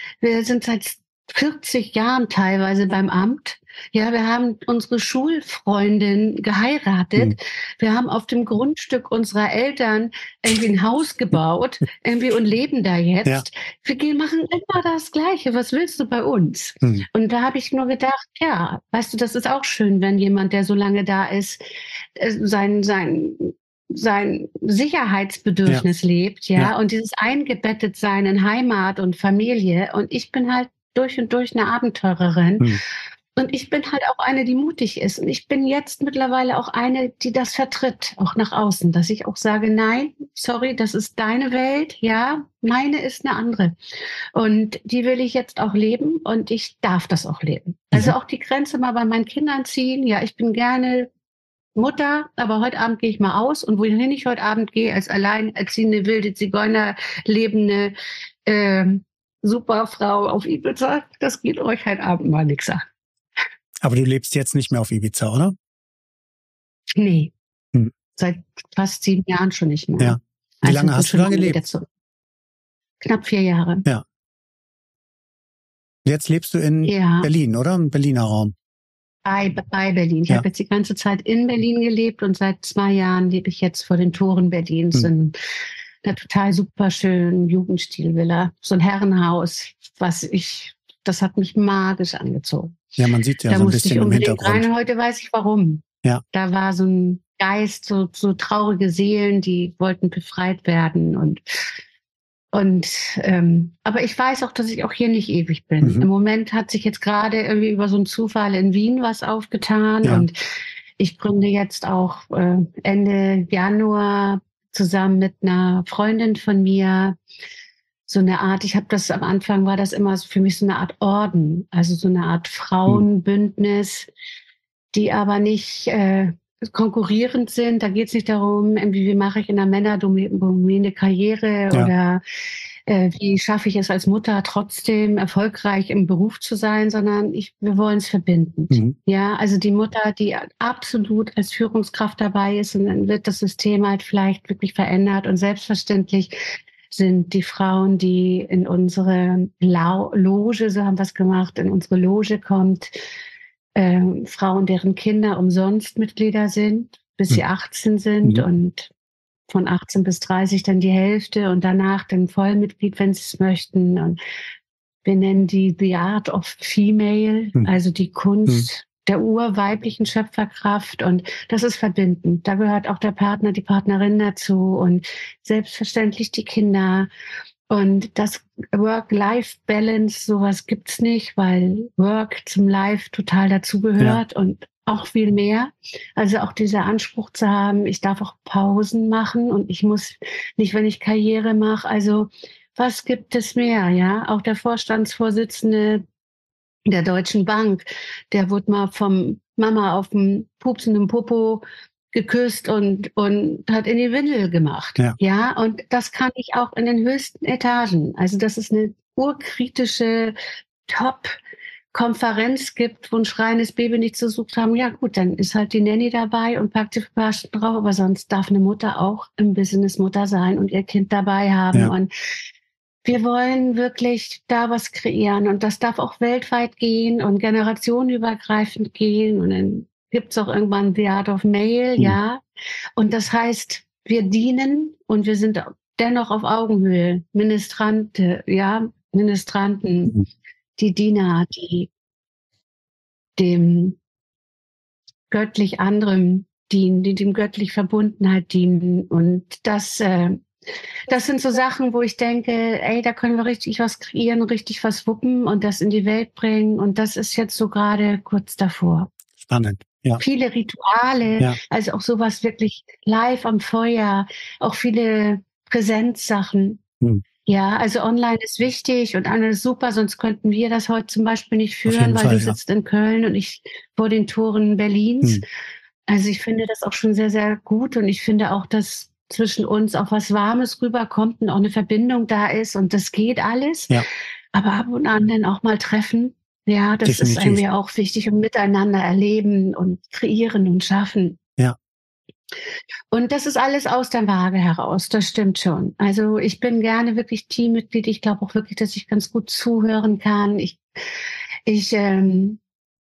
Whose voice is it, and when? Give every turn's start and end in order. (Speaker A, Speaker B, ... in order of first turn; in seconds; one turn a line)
Speaker A: 0.2-21.6
Speaker A: 22.2-32.7
Speaker A: 33.4-43.7
Speaker A: 44.3-51.1
Speaker A: 51.8-57.9
Speaker A: 58.5-62.8
Speaker B: 63.8-65.5
Speaker A: 67.0-67.3
Speaker A: 68.2-71.8
Speaker B: 70.0-71.6
Speaker A: 73.0-73.8
Speaker B: 76.0-78.5
Speaker A: 76.8-77.3
Speaker A: 79.2-85.3
Speaker A: 86.0-92.8
Speaker B: 93.0-94.7
Speaker A: 93.5-101.4
Speaker A: 102.5-110.3
Speaker B: 105.8-106.1
Speaker A: 111.0-117.2
Speaker A: 118.1-124.1
Speaker A: 124.9-132.2
Speaker A: 132.9-146.3
Speaker B: 138.7-138.9
Speaker A: 146.9-152.9
Speaker A: 153.8-158.9
Speaker A: 159.5-164.2
Speaker A: 165.0-177.1
Speaker A: 177.7-196.0
Speaker A: 196.9-210.3
Speaker A: 210.9-211.3
Speaker A: 211.9-222.1
Speaker A: 223.0-232.4
Speaker A: 233.0-240.2
Speaker A: 240.8-241.9
Speaker A: 243.4-244.0
Speaker A: 245.3-250.4
Speaker A: 251.1-259.1
Speaker B: 259.4-260.2
Speaker A: 260.2-266.8
Speaker A: 267.4-275.4
Speaker B: 271.9-272.6
Speaker A: 276.1-283.9
Speaker A: 284.5-291.4
Speaker B: 287.1-287.6
Speaker A: 293.1-300.8
Speaker A: 301.7-302.6